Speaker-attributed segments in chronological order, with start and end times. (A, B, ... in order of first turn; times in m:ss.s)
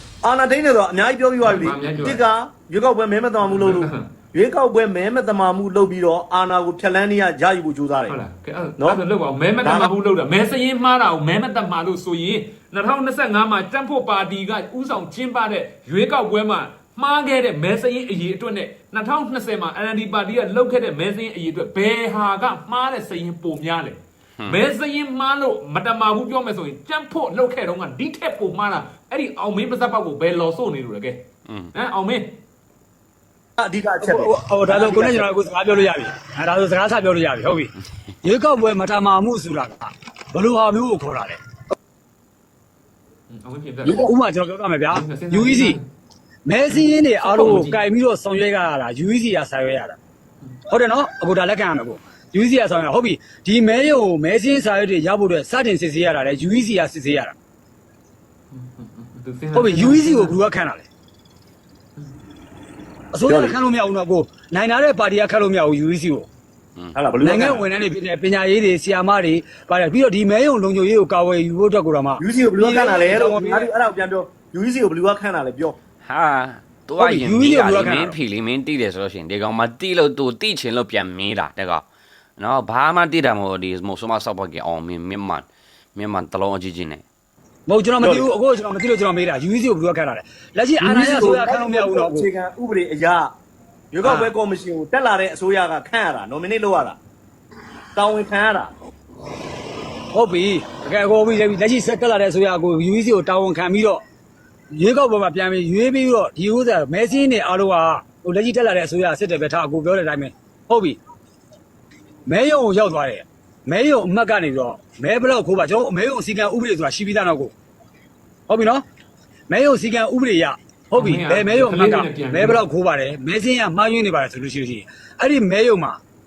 0:00.2-0:08.2 A
0:01.4-0:02.2 B
0:03.4-0:04.1 B
0:08.0-0:31.2 B
0:09.6-0:09.9 A
0:31.7-0:32.4 B
0:33.6-0:35.3 A
0:34.2-0:37.7 C
0:38.2-0:41.4 C
0:43.3-0:44.1 B
0:44.1-0:45.7 C
0:44.9-0:45.8 B
0:46.4-0:50.0 C
0:46.8-0:47.8 B
0:50.7-0:57.3 C
0:58.5-1:00.4 B
0:59.7-1:00.8 C
1:03.1-1:06.3 C
1:03.3-1:03.6 A
1:06.8-1:07.0 D
1:06.9-1:07.7 A
1:07.3-1:13.5 C
1:12.2-1:15.8 A
1:16.0-1:21.8 D
1:17.0-1:18.1 C
1:22.4-1:27.0 D
1:27.7-1:32.2 C
1:28.0-1:28.3 A
1:30.8-1:33.3 A
1:33.9-1:37.0 A
1:37.9-1:38.7 A
1:40.1-1:44.0 C
1:44.7-1:51.0 C
1:52.3-1:57.5 C
1:58.5-1:58.8 C
1:59.5-2:06.0 C
2:00.9-2:02.6 B